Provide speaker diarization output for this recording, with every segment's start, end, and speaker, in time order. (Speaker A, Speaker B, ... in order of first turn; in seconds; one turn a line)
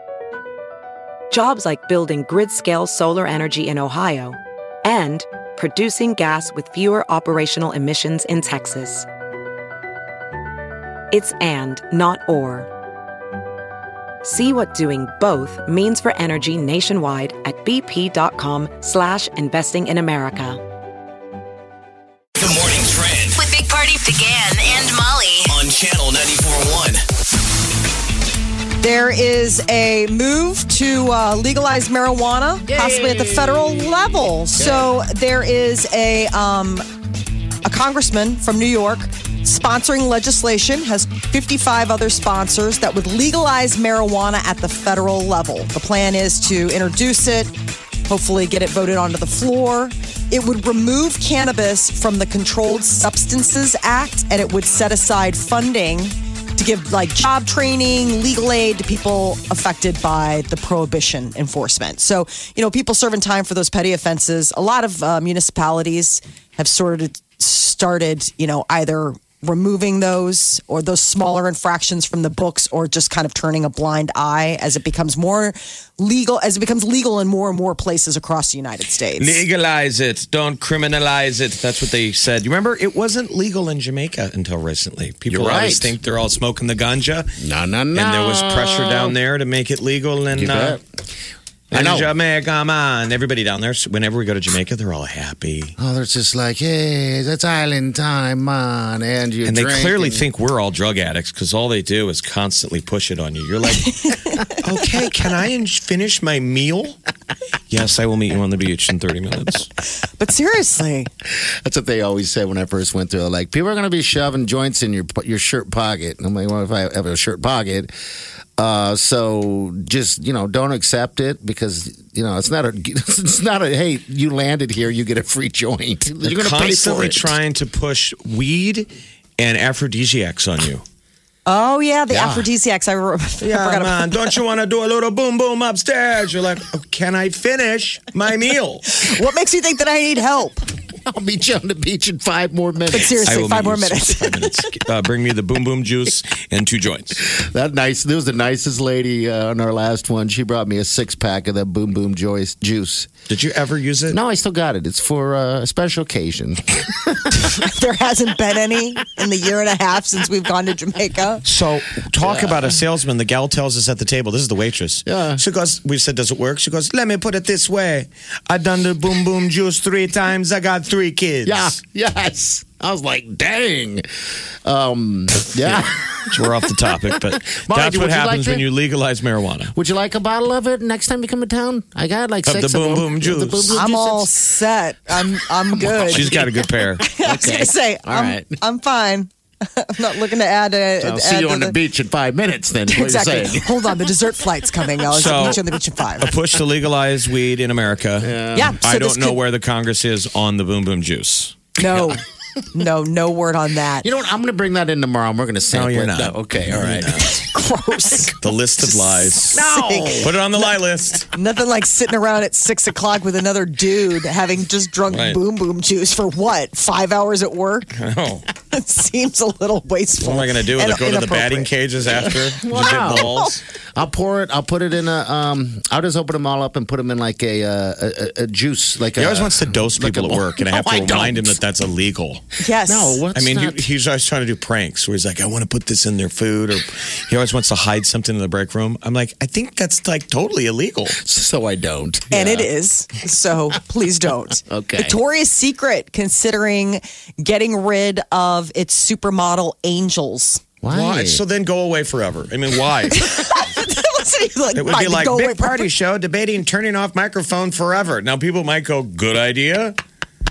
Speaker A: 1.3-9.1
Speaker A: 11.1-12.7
Speaker A: 14.2-20.6
Speaker B: 22.4-23.4
Speaker C: 23.4-25.5
Speaker B: 25.5-27.0
Speaker D: 28.8-36.9
Speaker E: 32.7-33.9
Speaker E: 34.6-34.9
Speaker D: 37.6-47.5
Speaker D: 48.1-79.4
Speaker F: 79.2-87.4
Speaker E: 85.3-85.9
Speaker E: 87.4-89.2
Speaker F: 87.9-90.8
Speaker E: 90.3-90.8
Speaker E: 91.7-92.1
Speaker F: 91.7-95.8
Speaker E: 95.8-100.2
Speaker F: 99.5-107.0
Speaker D: 103.9-104.4
Speaker F: 107.7-109.7
Speaker D: 110.0-111.1
Speaker E: 111.3-117.9
Speaker E: 118.6-127.4
Speaker F: 126.2-130.8
Speaker D: 131.5-134.3
Speaker E: 132.1-132.5
Speaker F: 133.4-139.1
Speaker D: 138.9-140.7
Speaker E: 141.1-143.2
Speaker D: 142.9-144.5
Speaker F: 143.2-147.2
Speaker E: 147.2-153.1
Speaker F: 153.3-154.2
Speaker E: 154.1-157.6
Speaker D: 157.3-161.4
Speaker F: 161.4-171.8
Speaker E: 162.2-162.8
Speaker E: 165.1-165.4
Speaker E: 171.4-178.6
Speaker F: 175.6-179.7
Speaker E: 179.7-184.3
Speaker F: 182.4-183.8
Speaker D: 183.7-186.3
Speaker E: 185.7-188.6
Speaker F: 186.1-187.0
Speaker D: 187.0-191.8
Speaker E: 191.0-193.8
Speaker D: 192.9-196.3
Speaker F: 195.1-202.1
Speaker E: 198.2-198.8
Speaker D: 198.6-199.4
Speaker D: 201.8-202.2
Speaker D: 202.7-204.1
Speaker E: 204.0-207.2
Speaker F: 205.7-207.4
Speaker D: 207.2-210.7
Speaker F: 208.4-209.6
Speaker E: 209.5-210.3
Speaker F: 210.2-211.3
Speaker D: 211.3-217.9
Speaker F: 215.1-215.4
Speaker F: 217.9-218.5
Speaker D: 218.7-222.3
Speaker F: 220.2-223.6
Speaker E: 222.4-231.6
Speaker D: 222.9-223.5
Speaker F: 229.2-232.4
Speaker D: 232.6-233.2
Speaker E: 232.8-233.9
Speaker F: 233.3-241.2
Speaker E: 241.1-242.7
Speaker D: 242.3-250.6
Speaker E: 244.7-245.2
Speaker E: 250.8-251.4
Speaker F: 250.9-253.3
Speaker D: 253.2-255.9
Speaker F: 254.8-260.0